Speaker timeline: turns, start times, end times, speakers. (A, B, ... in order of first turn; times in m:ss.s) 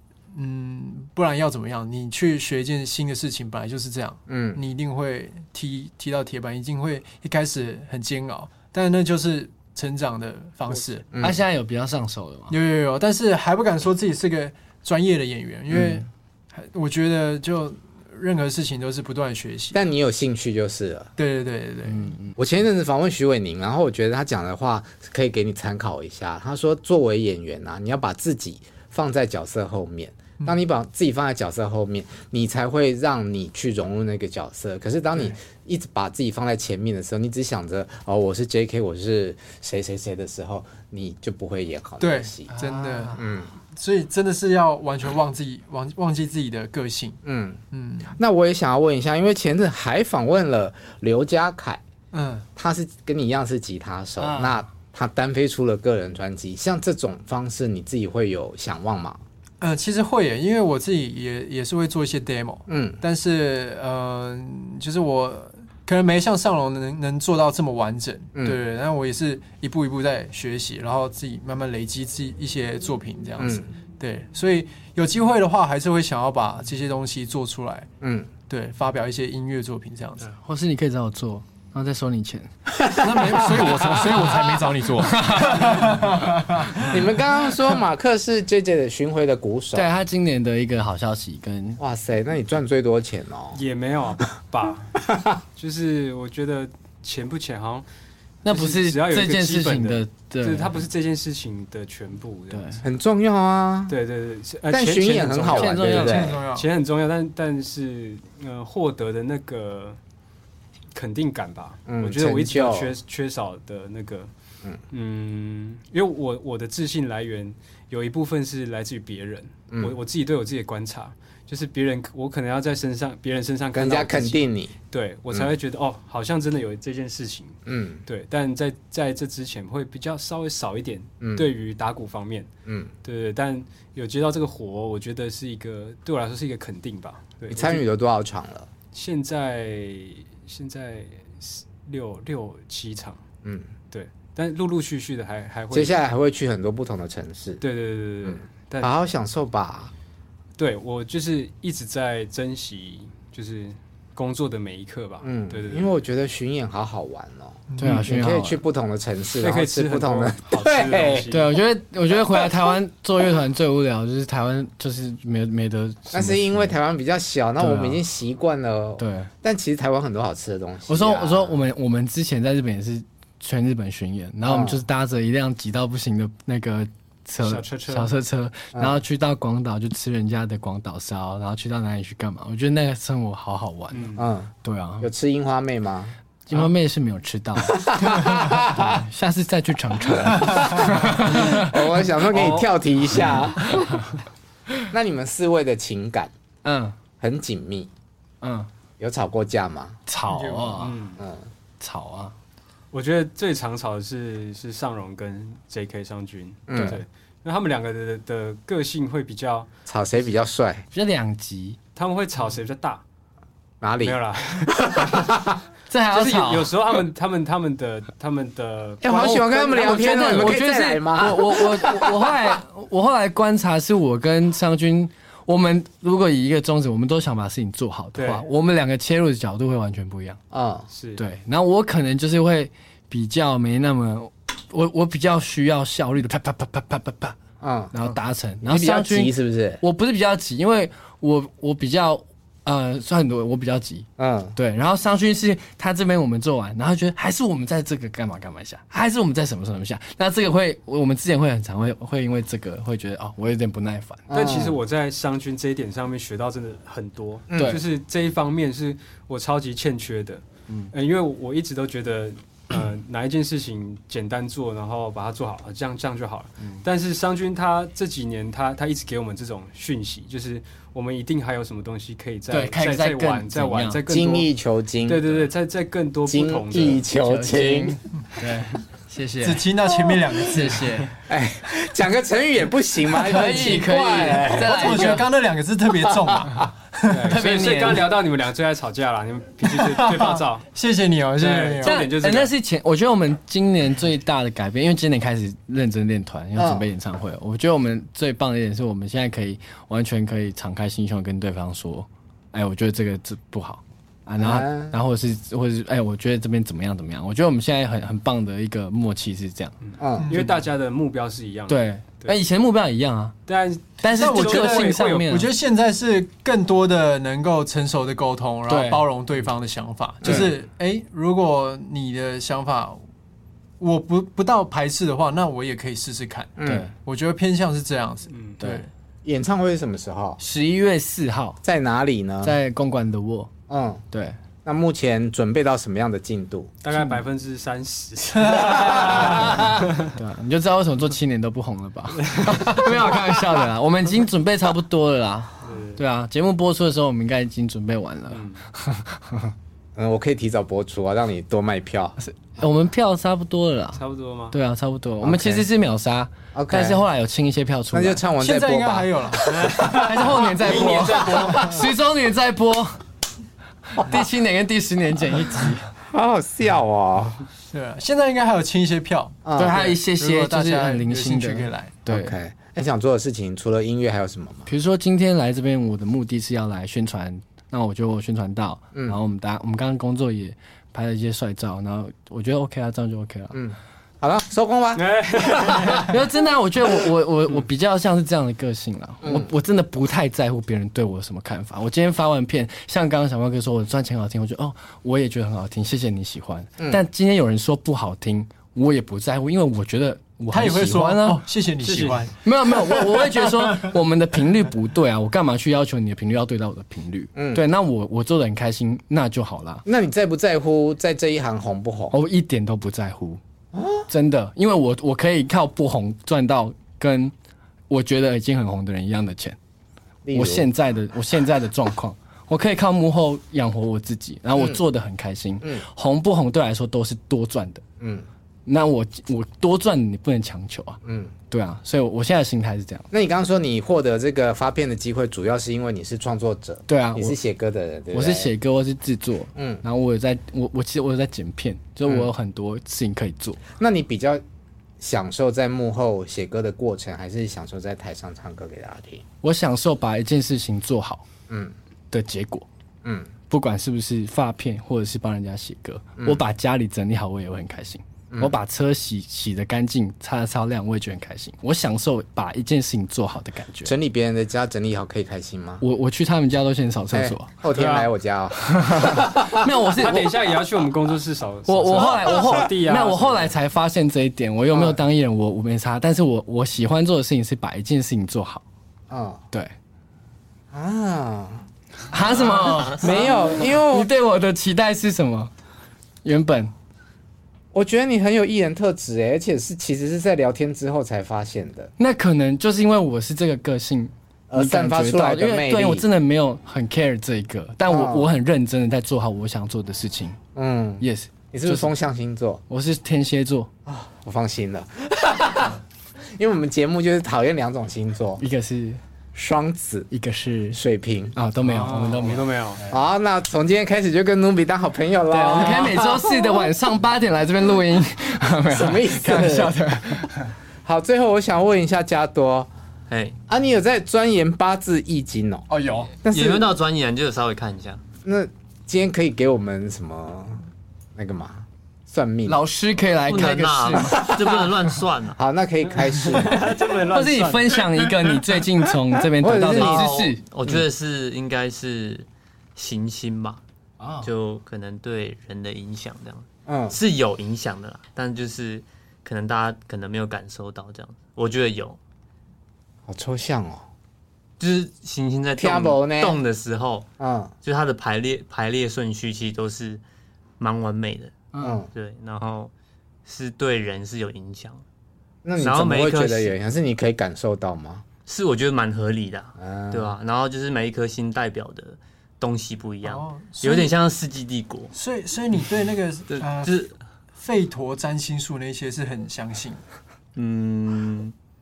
0:00.3-0:11.1 A
0:04.3-0:04.6 B
0:11.1-0:11.4 B
0:11.2-0:12.6 C
0:12.5-0:19.8 A
0:15.7-0:16.0 B
0:19.7-0:21.1 B
0:21.2-0:22.1 A
0:21.9-0:22.3 C
0:22.4-0:42.5 B
0:42.0-0:47.2 A
0:42.5-0:43.2 C
0:43.2-0:43.5 B
0:47.2-0:47.6 B
0:47.7-0:48.2 A
0:48.1-0:51.8 B
0:52.1-0:52.5 A
0:52.6-0:59.2 B
0:54.2-0:54.6 C
0:59.6-1:17.9 A
1:02.7-1:03.0 B
1:13.4-1:13.7 B
1:18.0-1:18.3 B
1:18.5-1:20.3 A
1:20.4-1:22.5 C
1:22.8-1:24.3 B
1:23.0-1:27.0 A
1:25.1-1:25.8 C
1:26.8-1:29.9 B
1:29.7-1:31.8 C
1:31.8-1:33.6 B
1:33.6-1:35.0 D
1:35.1-1:35.4 B
1:35.6-1:37.8 D
1:38.4-1:40.8 C
1:38.5-1:42.8 D
1:42.5-1:42.8 C
1:42.8-1:44.0 B
1:43.9-1:50.0 D
1:44.7-1:46.4 B
1:45.5-1:46.3 C
1:46.0-1:46.7 A
1:50.9-1:54.3 D
1:51.9-1:53.0 B
1:54.9-2:12.5 D
2:03.7-2:04.7 B
2:07.7-2:08.0 B
2:11.2-2:11.5 B
2:12.7-2:12.9 B
2:13.0-2:17.8 D
2:17.5-2:18.7 B
2:18.9-2:23.2 D
2:23.4-2:23.7 B
2:23.9-2:26.0 D
2:25.7-2:27.6 B
2:27.6-2:29.0 D
2:28.2-2:29.9 B
2:30.6-2:36.0 D
2:35.2-2:41.3 B
2:37.7-2:38.1 A
2:37.8-2:38.6 C
2:39.4-2:41.5 D
2:41.3-2:46.7 C
2:46.1-2:51.6 B
2:47.6-2:48.0 C
2:49.0-2:49.3 C
2:50.9-3:05.1 C
2:54.5-2:54.8 B
2:57.4-2:58.1 D
3:03.9-3:04.2 D
3:04.2-3:06.2 B
3:06.5-3:11.7 C
3:07.7-3:09.0 B
3:10.4-3:14.0 B
3:12.3-3:13.4 D
3:14.9-3:16.3 B
3:16.6-3:17.0 C
3:17.2-3:17.9 B
3:18.4-3:18.7 C
3:19.0-3:20.0 B
3:20.1-3:21.0 C
3:20.3-3:20.9 A
3:20.8-3:21.2 D
3:21.2-3:21.5 B
3:21.8-3:22.3 C
3:22.9-3:29.7 D
3:26.7-3:27.0 B
3:26.8-3:27.0 C
3:29.9-3:30.8 B
3:30.9-3:31.8 C
3:32.0-3:33.0 D
3:33.8-3:34.2 B
3:34.0-3:35.3 D
3:34.8-3:35.6 B
3:35.9-3:36.7 C
3:36.1-3:39.4 D
3:39.0-3:42.3 B
3:39.1-3:50.4 C
3:48.2-3:48.4 D
3:50.5-3:50.9 B
3:50.9-3:51.2 D
3:51.2-3:57.4 C
3:57.6-3:59.8 B
3:57.9-4:14.3 C
4:04.2-4:04.6 B
4:14.3-4:14.8 B
4:14.3-4:34.5 D
4:17.5-4:17.8 B
4:17.5-4:17.8 C
4:32.5-4:34.0 C
4:34.1-4:35.5 B
4:35.1-4:37.0 D
4:36.2-4:38.0 B
4:37.2-4:39.7 C
4:39.4-4:40.9 A
4:40.4-4:41.1 C
4:41.3-4:45.2 B
4:43.1-4:45.3 C
4:44.4-4:47.3 A
4:46.1-4:46.5 B
4:47.1-4:50.7 D
4:47.3-4:48.1 C
4:49.7-4:52.0 A
4:51.4-4:52.5 D
4:51.8-5:09.8 C
4:56.6-4:56.9 B
5:04.4-5:05.0 B
5:09.8-5:12.4 D
5:10.0-5:10.4 B
5:10.2-5:10.6 A
5:11.7-5:13.4 C
5:13.5-5:15.4 D
5:14.0-5:15.5 C
5:14.1-5:23.0 A
5:18.7-5:19.0 C
5:20.2-5:20.5 B
5:23.8-5:28.9 A
5:26.6-5:26.9 B
5:26.7-5:26.9 C
5:28.3-5:28.6 D
5:29.2-5:30.4 B
5:30.4-5:31.6 C
5:31.6-5:32.6 B
5:32.4-5:33.5 C
5:33.7-5:34.0 B
5:34.1-5:34.4 C
5:34.6-5:36.7 B
5:36.8-5:40.1 D
5:38.8-5:39.7 B
5:39.5-5:49.5 C
5:42.3-5:42.9 D
5:45.6-5:46.0 D
5:48.3-5:48.6 D
5:50.0-5:52.2 B
5:52.2-5:54.0 C
5:54.0-5:54.6 D
5:54.5-5:58.2 C
5:55.2-5:55.6 B
5:56.5-5:57.0 B
5:57.9-6:01.6 B
5:58.4-5:59.6 A
5:59.9-6:03.0 C
6:00.6-6:01.8 D
6:03.9-6:05.9 C
6:06.1-6:07.4 B
6:07.7-6:12.0 A
6:09.4-6:10.0 B
6:09.6-6:12.3 C
6:12.1-6:14.7 B
6:14.7-6:23.6 C
6:23.5-6:26.1 B
6:25.0-6:26.1 D
6:26.1-6:41.4 C
6:36.8-6:37.0 B
6:40.5-6:42.4 A
6:41.8-6:42.2 D
6:42.4-6:49.8 C
6:42.9-6:43.2 A
6:47.4-6:47.6 B
6:49.9-6:52.1 B
6:52.1-6:53.4 C
6:53.7-6:54.1 B
6:54.1-6:57.3 C
6:57.9-6:59.6 C
7:00.2-7:00.7 B
7:00.3-7:07.8 C
7:08.0-7:08.3 B
7:08.7-7:13.1 C
7:11.0-7:11.3 B
7:13.1-7:18.5 B
7:16.9-7:17.4 C
7:18.1-7:23.6 C
7:19.6-7:19.8 B
7:23.8-7:24.4 B
7:25.0-7:29.2 B
7:29.4-7:31.2 C
7:31.5-7:31.8 B
7:32.1-7:32.7 C
7:33.0-7:33.3 B
7:33.5-7:43.9 C
7:43.8-7:45.8 B
7:45.8-7:47.5 C
7:47.1-7:49.6 B
7:47.7-7:48.1 D
7:48.6-7:50.3 C
7:50.0-7:53.5 D
7:51.7-7:58.6 C
7:54.7-7:55.0 B
7:59.1-7:59.4 B
8:00.7-8:01.6 B
8:02.1-8:05.5 C
8:02.9-8:04.1 B
8:06.2-8:06.7 C
8:07.7-8:11.9 B
8:12.0-8:20.4 C
8:14.5-8:16.1 B
8:17.9-8:18.3 B
8:20.6-8:22.6 B
8:21.0-8:21.9 C
8:22.7-8:23.7 C
8:23.9-8:25.8 B
8:26.4-8:28.4 B
8:28.4-8:29.0 C
8:29.3-8:30.1 B
8:30.1-8:30.8 C
8:30.7-8:31.4 B
8:31.4-8:32.5 C
8:31.7-8:32.8 D
8:32.9-8:36.5 B
8:35.3-8:40.5 C
8:38.7-8:39.8 B
8:40.8-8:42.7 B
8:43.1-8:43.4 E
8:43.5-8:45.6 B
8:45.7-8:46.2 C
8:46.2-8:46.7 B
8:46.3-8:48.0 E
8:48.2-8:50.6 B
8:51.2-8:52.6 B
8:52.5-8:54.2 C
8:53.3-8:55.4 E
8:54.2-8:54.7 B
8:55.4-8:56.6 B
8:56.3-8:58.1 D
8:57.1-9:00.4 C
8:59.4-9:00.8 B
8:59.7-9:03.6 E
9:04.0-9:04.3 C
9:04.2-9:12.0 E
9:06.7-9:07.0 B
9:13.1-9:13.9 B
9:14.6-9:17.1 E
9:15.6-9:16.4 B
9:17.2-9:17.5 B
9:17.6-9:20.0 E
9:20.6-9:21.4 E
9:21.5-9:21.8 C
9:21.6-9:21.9 B
9:21.9-9:22.7 E
9:23.2-9:24.8 E
9:25.4-9:28.0 B
9:25.6-9:26.6 E
9:28.3-9:34.9 E
9:29.6-9:30.2 B
9:33.0-9:34.0 A
9:34.9-9:36.8 A
9:36.3-9:37.0 E
9:37.4-9:39.8 A
9:40.4-9:41.3 E